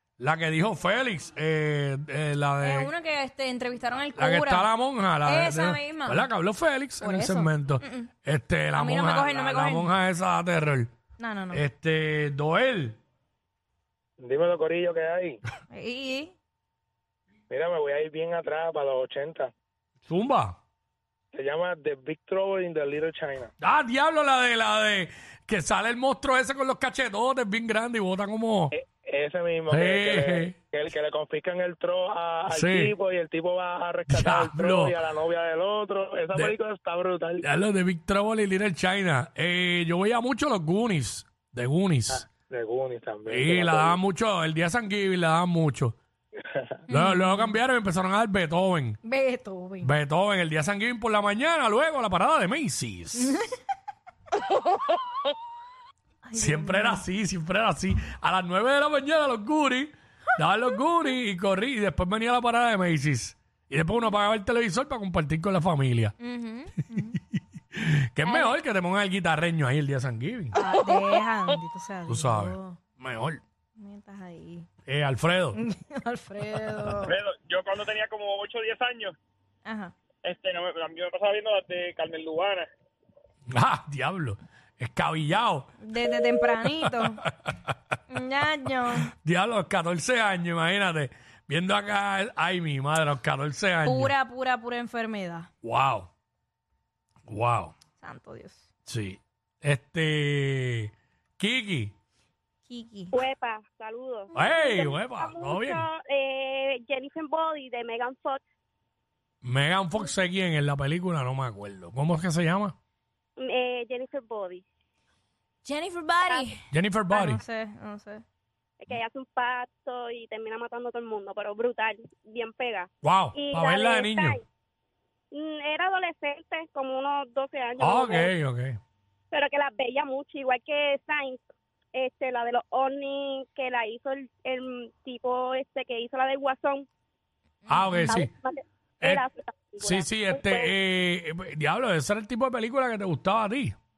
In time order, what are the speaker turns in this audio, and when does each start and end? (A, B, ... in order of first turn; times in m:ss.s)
0:00.2-0:02.9 A
0:02.6-0:06.3 B
0:04.2-0:10.9 A
0:07.0-0:08.1 B
0:08.7-0:09.9 B
0:11.2-0:11.6 B
0:11.5-0:13.0 A
0:14.2-0:15.4 C
0:15.7-0:16.3 B
0:17.5-0:19.5 C
0:20.1-0:20.6 A
0:21.3-0:23.5 C
0:23.6-0:28.7 A
0:28.7-0:37.5 C
0:29.7-0:30.6 A
0:32.5-0:32.9 A
0:34.1-0:35.0 A
0:37.4-0:42.2 A
0:42.1-0:44.0 C
0:43.3-0:46.0 A
0:46.9-0:47.5 B
0:46.9-0:49.0 A
0:49.0-0:49.9 B
0:49.8-0:53.4 A
0:53.2-0:53.6 B
0:56.2-0:57.0 B
0:56.4-1:06.2 A
1:06.2-1:07.2 B
1:07.7-1:10.6 A
1:08.2-1:08.6 B
1:10.5-1:12.8 B
1:12.1-1:13.4 A
1:13.8-1:14.7 B
1:14.9-1:15.6 A
1:15.6-1:17.2 B
1:17.1-1:19.1 D
1:19.6-1:19.9 B
1:20.2-1:22.7 D
1:23.5-1:25.8 A
1:25.8-1:27.2 B
1:26.5-1:27.7 A
1:28.1-1:29.1 B
1:29.1-1:34.1 A
1:33.8-1:35.5 B
1:35.6-1:36.1 A
1:37.3-1:37.7 A
1:38.0-1:38.7 B
1:38.9-1:41.9 A
1:42.7-1:43.2 B
1:43.1-1:48.4 E
1:44.3-1:45.9 A
1:49.4-1:52.8 A
1:53.4-1:54.6 E
1:55.6-1:56.6 B
1:56.3-1:56.5 E
1:56.7-1:57.4 A
1:57.1-1:58.2 B
1:58.8-2:04.4 E
2:03.0-2:04.4 A
2:05.3-2:08.3 E
2:07.8-2:08.8 A
2:09.3-2:16.9 E
2:17.7-2:18.1 B
2:17.7-2:18.3 A
2:18.1-2:20.7 E
2:19.8-2:23.8 A